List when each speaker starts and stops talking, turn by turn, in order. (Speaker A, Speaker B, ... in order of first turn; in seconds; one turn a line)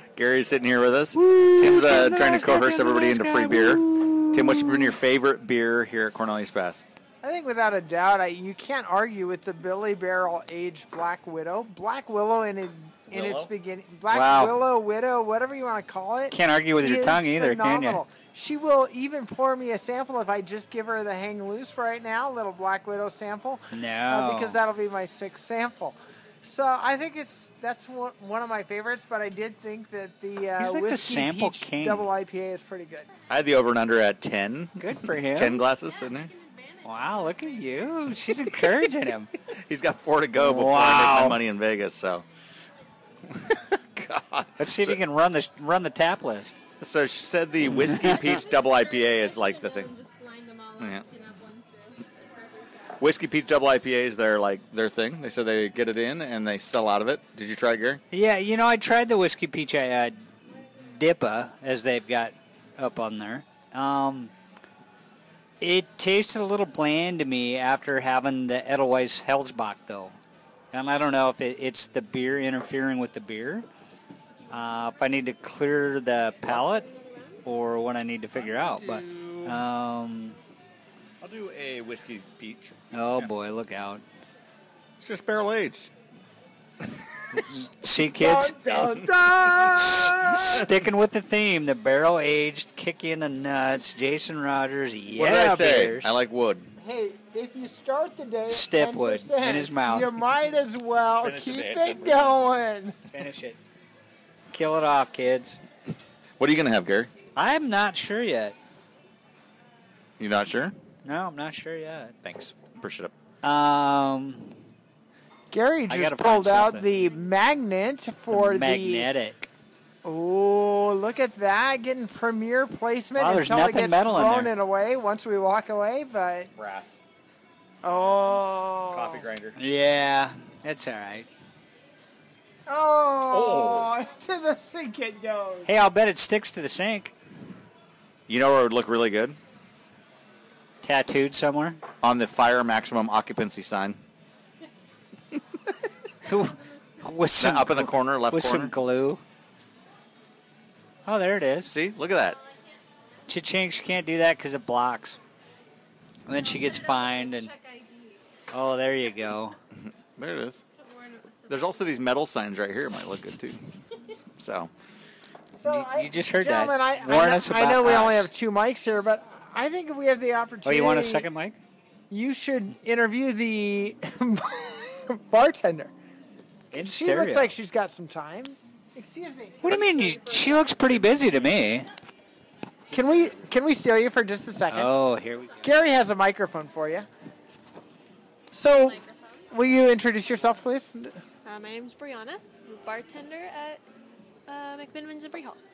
Speaker A: 0.1-6.8
Speaker B: 1.1-4.9
Speaker C: 7.2-33.1
Speaker A: 13.1-13.5
Speaker B: 14.1-14.6
Speaker B: 16.3-18.0
Speaker B: 23.7-24.6
Speaker B: 30.6-32.1
Speaker A: 33.3-36.3
Speaker B: 34.8-35.6
Speaker D: 35.8-38.5
Speaker B: 36.8-39.3
Speaker A: 39.5-42.2
Speaker B: 40.4-41.4
Speaker A: 43.3-45.0
Speaker B: 44.6-46.6
Speaker A: 46.8-49.9
Speaker D: 48.0-52.9
Speaker A: 50.8-51.0
Speaker A: 53.0-58.0
Speaker B: 58.1-64.3
Speaker B: 65.6-70.2
Speaker B: 70.7-73.7
Speaker B: 74.5-76.9
Speaker D: 76.9-77.3
Speaker B: 77.4-80.4
Speaker A: 78.3-79.6
Speaker A: 81.2-83.3
Speaker B: 82.9-84.0
Speaker A: 85.0-85.9
Speaker B: 87.3-88.9
Speaker C: 88.0-90.6
Speaker B: 89.5-96.1
Speaker A: 95.1-96.7
Speaker C: 96.8-102.9
Speaker B: 98.5-100.1
Speaker A: 101.2-102.4
Speaker B: 103.1-103.6
Speaker B: 104.5-105.6
Speaker A: 106.4-107.1
Speaker B: 107.3-108.5
Speaker A: 110.2-110.7
Speaker B: 111.0-112.2
Speaker A: 112.2-113.1
Speaker B: 113.4-114.6
Speaker C: 115.5-119.1
Speaker B: 115.9-116.9
Speaker B: 118.3-119.5
Speaker C: 120.0-126.5
Speaker B: 123.2-124.5
Speaker A: 126.5-127.0
Speaker C: 127.8-129.2
Speaker A: 128.9-129.6
Speaker B: 129.6-131.3
Speaker C: 132.7-135.7
Speaker A: 133.3-133.9
Speaker B: 135.7-137.1
Speaker A: 138.3-139.4
Speaker B: 140.8-141.8
Speaker A: 142.0-144.0
Speaker B: 146.2-149.2
Speaker A: 147.4-148.7
Speaker B: 151.1-151.7
Speaker A: 151.6-152.4
Speaker B: 153.3-155.2
Speaker B: 156.2-157.5
Speaker D: 156.3-158.2
Speaker B: 158.5-159.6
Speaker A: 159.8-160.6
Speaker D: 160.7-162.1
Speaker A: 161.5-163.7
Speaker A: 164.4-164.7
Speaker C: 165.6-171.3
Speaker B: 165.6-168.3
Speaker B: 170.6-171.6
Speaker C: 172.1-175.9
Speaker B: 176.7-177.6
Speaker C: 176.7-180.8
Speaker B: 179.6-181.9
Speaker C: 182.9-185.0
Speaker A: 182.9-183.4
Speaker B: 184.7-185.7
Speaker C: 185.6-187.1
Speaker C: 188.5-189.0
Speaker D: 188.8-189.5
Speaker C: 189.5-191.2
Speaker D: 191.4-193.8
Speaker D: 194.5-195.6